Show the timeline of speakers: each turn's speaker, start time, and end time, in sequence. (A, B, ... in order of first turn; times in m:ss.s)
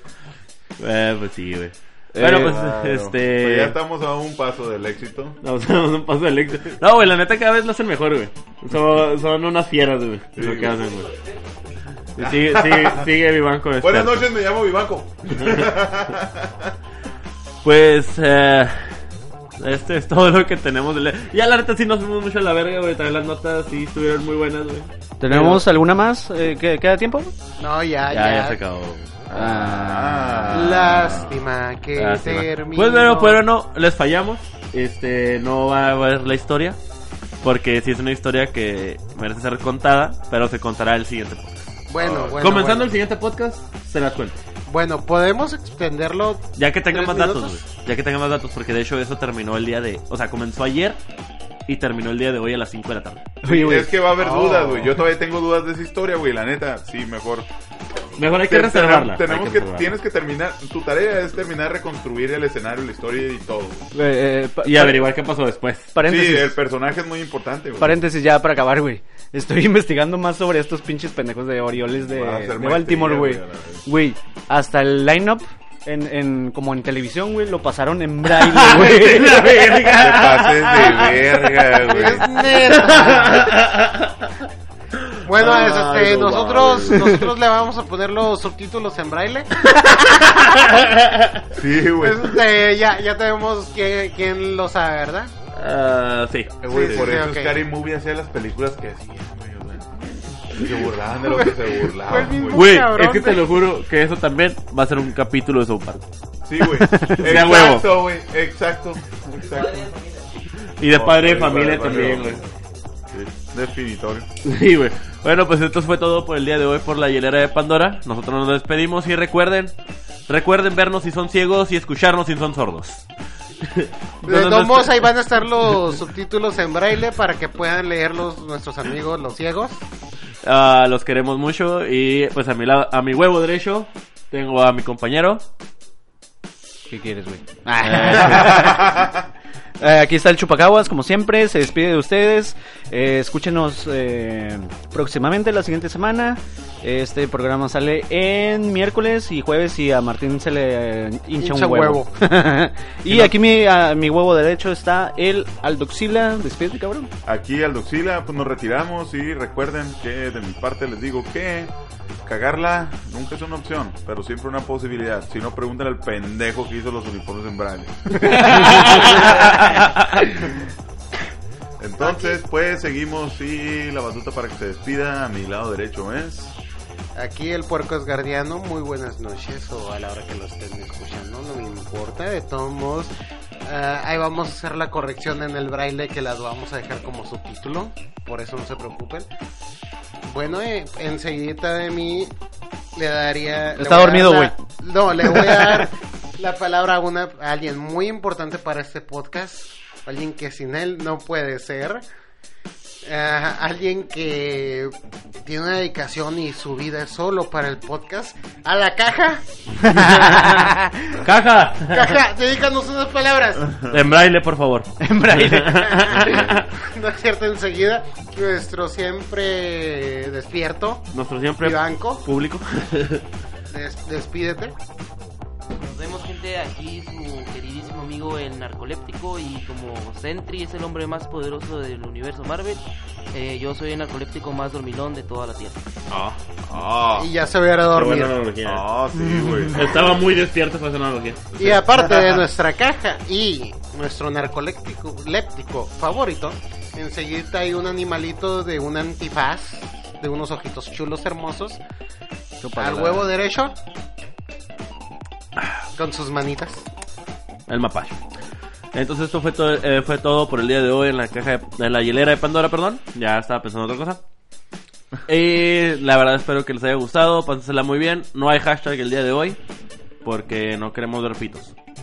0:00.8-0:03.7 A
0:02.2-0:02.5 B
0:02.2-0:05.4 C
0:05.4-0:11.2 A
0:10.4-0:10.8 C
0:12.2-0:14.3 A
0:12.2-0:13.1 C
0:13.8-0:16.7 C
0:15.4-0:15.7 A
0:17.6-0:19.0 A
0:19.6-0:25.6 A
0:25.2-0:27.3 B
0:27.6-0:28.6 D
0:28.1-0:29.1 A
0:29.3-0:31.4 C
0:29.3-0:30.4 B
0:30.5-0:33.4 D
0:32.0-0:36.8 A
0:37.4-0:41.7 A
0:41.9-0:42.9 D
0:42.0-0:42.4 C
0:42.4-0:44.4 A
0:44.7-0:47.6 D
0:46.6-0:51.0 A
0:51.7-0:53.3 A
0:53.4-0:53.9 B
0:53.5-0:57.5 C
0:54.2-0:55.0 D
0:58.2-1:00.0 A
0:58.4-1:03.9 C
1:03.9-1:05.0 B
1:04.6-1:05.9 A
1:06.0-1:06.5 B
1:06.0-1:08.0 C
1:07.8-1:19.5 B
1:12.1-1:13.8 C
1:18.4-1:21.2 A
1:19.9-1:22.3 C
1:21.8-1:23.6 D
1:21.9-1:24.2 A
1:25.0-1:27.2 A
1:25.2-1:30.6 D
1:30.7-1:31.4 A
1:31.5-1:32.4 C
1:32.0-1:35.3 D
1:35.5-1:37.1 A
1:36.6-1:42.7 C
1:36.7-1:37.6 D
1:41.2-1:43.5 D
1:42.5-1:46.0 A
1:46.4-1:50.0 C
1:46.9-1:47.2 B
1:47.2-1:47.9 A
1:50.8-1:52.4 A
1:50.9-1:52.4 C
1:53.1-1:54.3 C
1:54.4-1:59.7 A
2:00.3-2:03.0 A
2:03.6-2:05.1 A
2:04.3-2:09.8 D
2:10.4-2:15.4 A
2:16.9-2:19.0 B
2:18.2-2:19.2 C
2:19.8-2:37.1 B
2:31.4-2:32.1 D
2:33.1-2:33.3 A
2:37.3-2:41.7 C
2:42.2-2:49.3 C
2:48.2-2:50.1 A
2:48.8-2:49.5 B
2:51.8-2:56.6 C
2:52.0-2:52.4 D
2:57.2-3:03.1 D
3:03.6-3:09.3 D
3:10.2-3:12.3 D
3:13.0-3:22.0 D
3:13.8-3:14.6 B
3:15.4-3:15.8 B
3:23.0-3:31.0 D
3:29.9-3:30.7 A
3:31.2-3:32.2 A
3:31.9-3:33.8 D
3:33.6-3:34.0 C
3:33.9-3:36.7 A
3:35.0-3:36.0 B
3:35.9-3:41.1 D
3:41.1-3:43.2 A
3:41.6-3:42.2 D
3:43.7-3:44.8 D
3:45.7-3:55.8 E
3:56.1-3:56.4 A
3:56.7-3:57.3 C
3:57.2-3:58.3 D
3:57.9-3:58.8 A
3:58.6-4:00.2 C
3:59.2-3:59.7 B
3:59.7-4:01.6 A
4:01.6-4:11.8 D
4:12.6-4:13.3 B
4:12.8-4:13.7 D
4:15.6-4:15.9 A
4:16.0-4:16.9 D
4:17.7-4:18.2 A
4:18.9-4:24.2 A
4:25.3-4:29.6 A
4:30.2-4:31.7 A